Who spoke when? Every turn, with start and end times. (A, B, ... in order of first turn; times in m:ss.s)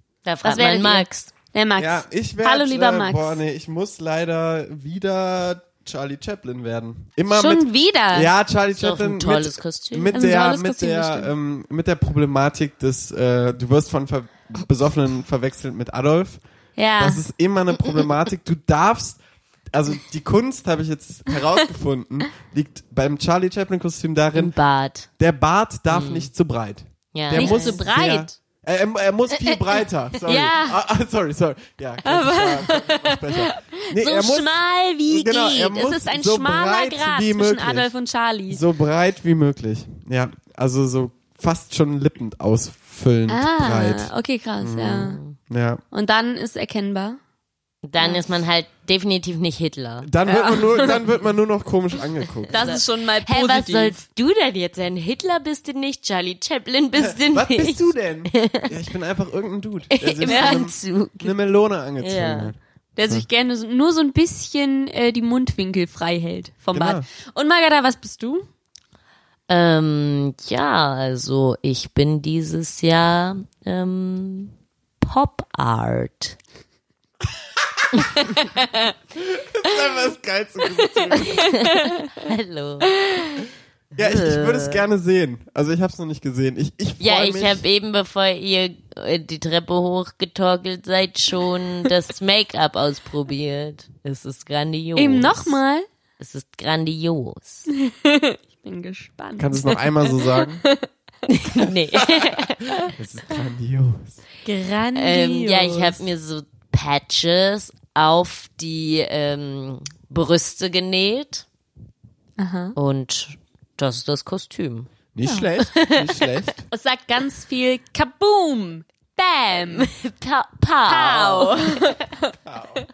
0:00.2-0:01.3 A
0:00.4-0:03.4 B
0:01.8-0:16.4 C
0:07.3-0:08.3 B
0:08.8-0:10.2 A
0:10.1-0:11.3 B
0:16.8-0:17.2 B
0:17.0-0:19.2 C
0:19.7-0:24.5 C
0:24.3-0:25.1 A
0:25.2-0:37.9 C
0:25.9-0:26.3 A
0:27.1-0:28.0 A
0:27.3-0:28.3 B
0:30.2-0:30.8 B
0:32.0-0:38.6 B
0:38.5-0:45.8 C
0:43.3-0:45.2 B
0:45.0-0:45.4 A
0:45.9-0:47.2 B
0:47.8-0:50.1 A
0:50.0-0:52.7 C
0:50.2-0:51.0 B
0:52.5-0:58.8 A
0:52.5-0:54.0 B
0:57.0-1:03.3 C
0:59.9-1:01.3 A
1:00.2-1:00.6 B
1:02.0-1:02.5 A
1:03.0-1:08.5 B
1:06.7-1:07.0 C
1:09.5-1:16.4 A
1:17.6-1:18.0 C
1:18.2-1:18.9 B
1:19.1-1:21.5 C
1:20.9-1:22.2 B
1:21.3-1:22.9 A
1:22.9-1:23.4 B
1:24.0-1:27.6 C
1:24.0-1:24.8 A
1:27.0-1:35.6 A
1:35.0-1:35.8 B
1:36.2-1:37.7 A
1:37.7-1:40.8 B
1:39.4-1:40.6 C
1:41.3-1:42.8 A
1:42.0-1:44.2 C
1:44.4-1:46.0 B
1:44.9-1:51.4 A
1:52.4-1:52.8 B
1:52.8-1:54.9 A
1:55.1-1:56.6 C
1:55.6-1:56.4 A
1:56.7-1:59.9 B
1:59.7-2:02.0 A
2:00.8-2:02.3 B
2:02.4-2:02.8 C